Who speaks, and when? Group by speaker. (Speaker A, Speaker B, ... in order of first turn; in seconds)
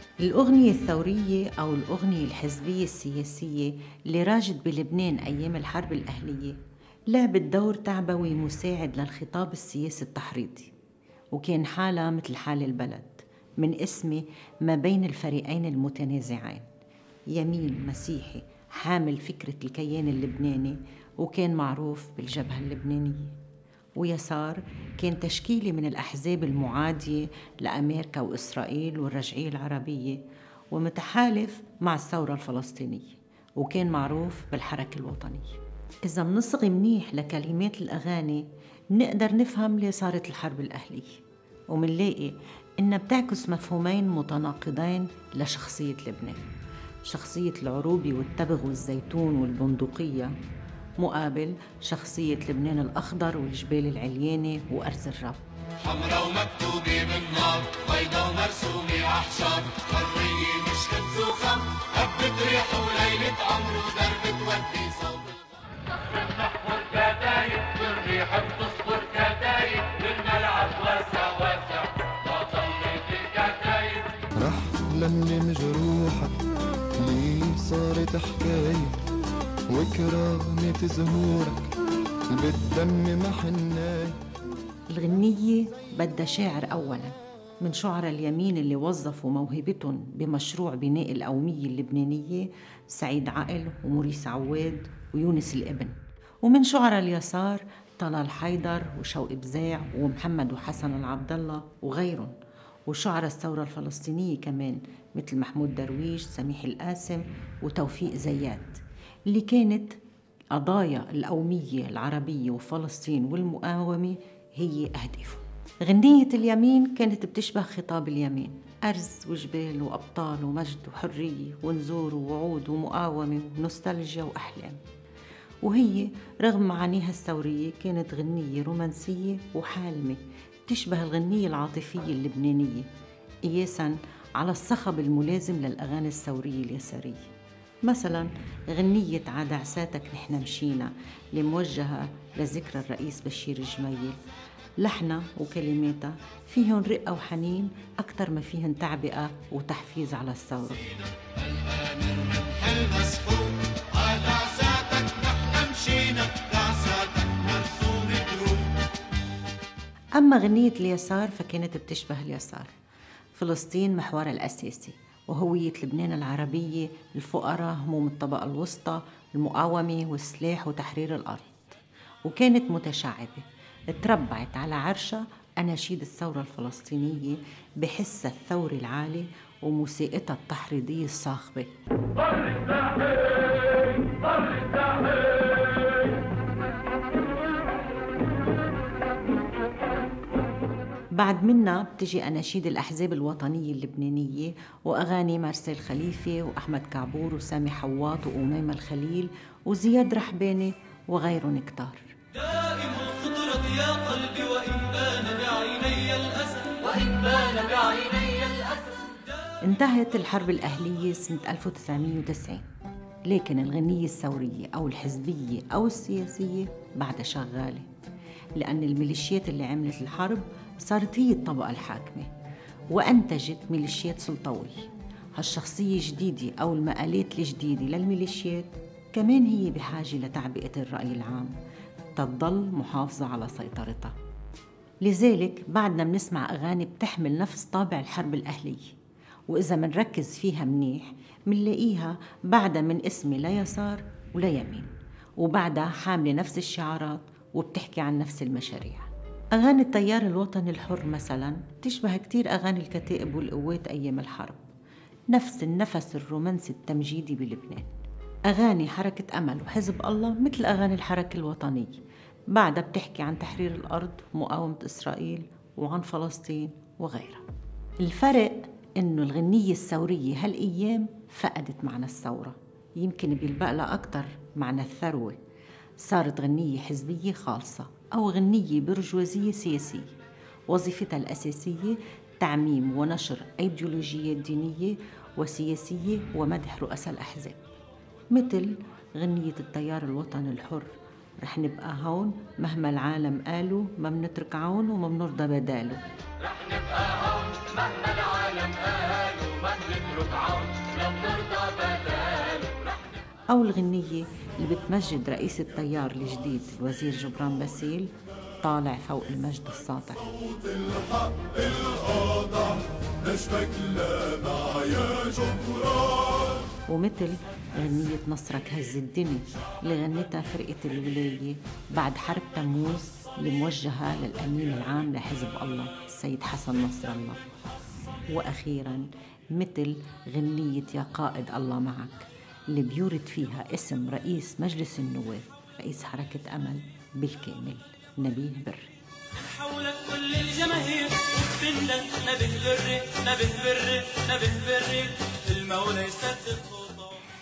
Speaker A: 0.2-6.6, 7.1-10.7, 11.3-16.6, 17.3-23.4, 24.0-46.5, 47.0-50.3, 51.0-55.4, 84.9-102.3, 102.9-110.0, 110.5-124.8, 125.6-132.9, 133.4-137.3, 137.8-144.2, 144.8-150.9, 160.2-162.7, 163.3-181.7, 191.1-202.1, 209.6-212.7, 213.2-217.9, 218.6-222.3, 222.9-224.8, 225.3-231.5, 232.2-234.1, 235.0-238.9, 239.5-254.6, 255.3-257.9, 258.5-262.0, 262.5-267.4, 268.0-275.4, 276.0-280.1, 280.7-287.6, 288.3-296.0, 303.5-310.5, 316.9-327.4, 328.3-338.9
Speaker B: 55.8-74.2, 151.2-158.8, 296.4-302.9
Speaker C: 74.3-76.4, 77.0-79.0, 79.7-81.7, 82.3-84.2
Speaker D: 202.3-209.2, 298.2-302.9, 314.2-315.7, 339.3-347.2